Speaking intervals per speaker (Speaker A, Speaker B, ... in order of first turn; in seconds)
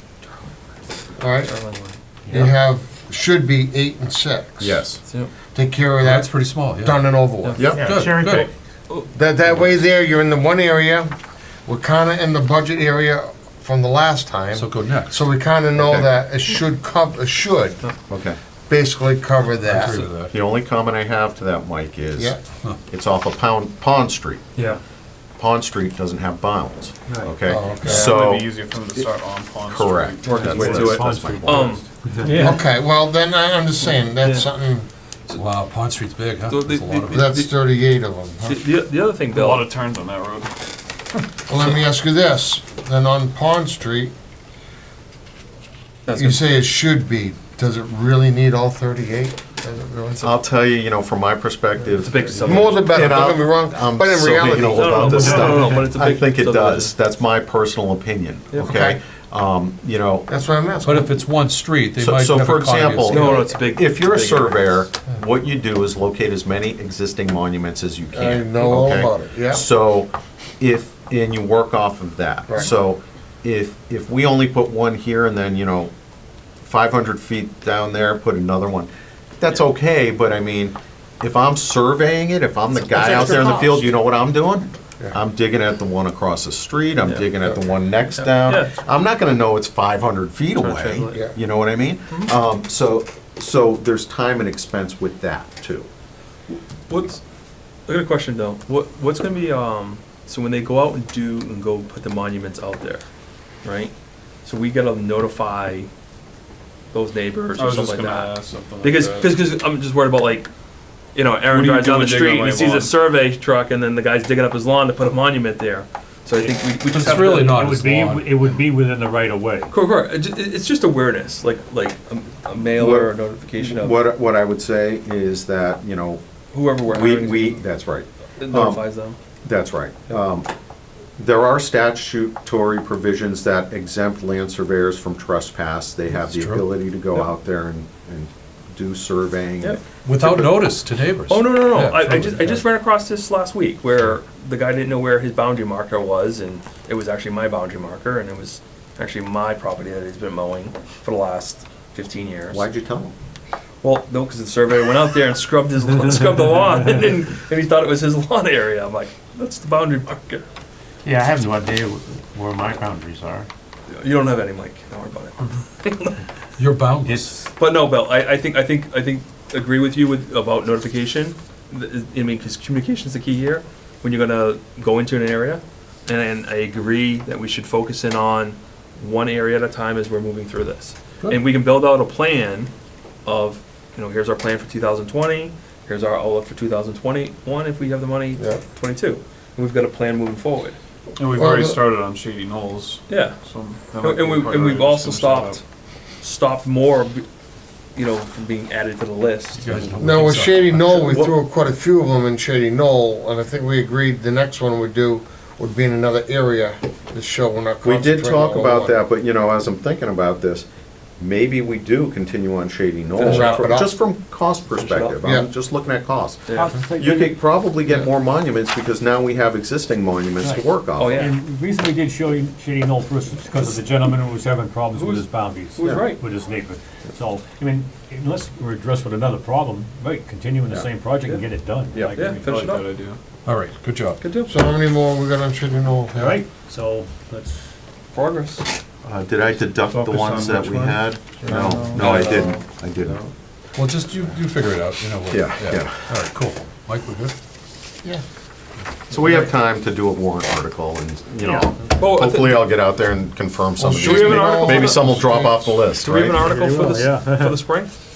Speaker A: 1.2-1.5, 2.3-4.8, 5.5-7.7, 9.1-11.1, 11.7-17.8, 18.7-20.1, 27.4-28.2, 32.2-34.9, 37.1-38.6, 41.5-44.1, 46.1-50.3, 52.4-55.5, 58.6-59.0, 60.3-61.2, 68.1-69.7, 188.4-188.6, 191.3-191.8, 199.9-209.0, 213.2-213.9, 215.2-215.5, 234.5-236.3, 253.8-255.3
Speaker B: 1.4-2.4, 7.4-7.7, 30.3-30.7, 31.4-31.8, 34.2-34.5, 36.5-37.5, 38.4-39.7, 46.1-46.4, 51.9-53.0, 54.6-56.9, 63.0-64.9, 83.0-83.7, 87.0-87.5, 88.1-88.7, 90.5-91.2, 96.9-97.2, 97.9-103.0, 103.6-103.9, 104.4-105.9, 106.9-110.5, 111.1-117.6, 119.7-124.0, 126.5-127.6, 128.4-129.2, 139.6-140.6, 141.3-152.7, 153.8-160.4, 163.9-166.2, 167.6-182.7, 183.2-190.8, 193.1-195.6, 196.2-197.2, 197.9-199.7, 213.2-213.7, 214.7-215.2, 216.5-216.8, 220.9-221.4, 224.9-226.2, 231.2-233.1, 234.2-234.5, 238.1-238.7, 241.5-243.2, 252.0-252.7, 253.9-257.9
Speaker C: 4.6-5.0, 7.5-7.9, 15.8-16.1, 18.1-18.4, 20.3-24.4, 25.4-28.5, 29.7-31.8, 50.2-60.3, 62.0-75.9, 76.6-95.9, 122.7-126.2, 126.9-128.8, 129.4-130.5, 131.2-139.8, 152.5-153.1, 207.8-210.7, 211.2-221.3, 239.0-243.2, 245.3-246.0, 249.1-256.4
Speaker D: 6.0-7.0, 7.7-8.5, 14.5-15.3, 19.6-20.3, 35.3-37.4, 60.8-63.5, 116.9-118.3, 136.1-136.7, 140.0-142.6, 166.6-167.3, 199.6-201.2, 233.4-234.2, 243.8-247.3
Speaker E: 7.8-8.5, 30.3-32.5, 55.2-55.8, 117.4-119.7, 161.1-163.5, 167.0-167.5, 216.6-217.4, 220.4-232.5, 236.2-237.7, 251.4-251.7, 256.4-257.6
Speaker F: 27.9-31.1, 39.3-40.5, 107.5-109.5, 111.5-113.0, 191.2-195.6, 232.2-233.2, 239.9-242.5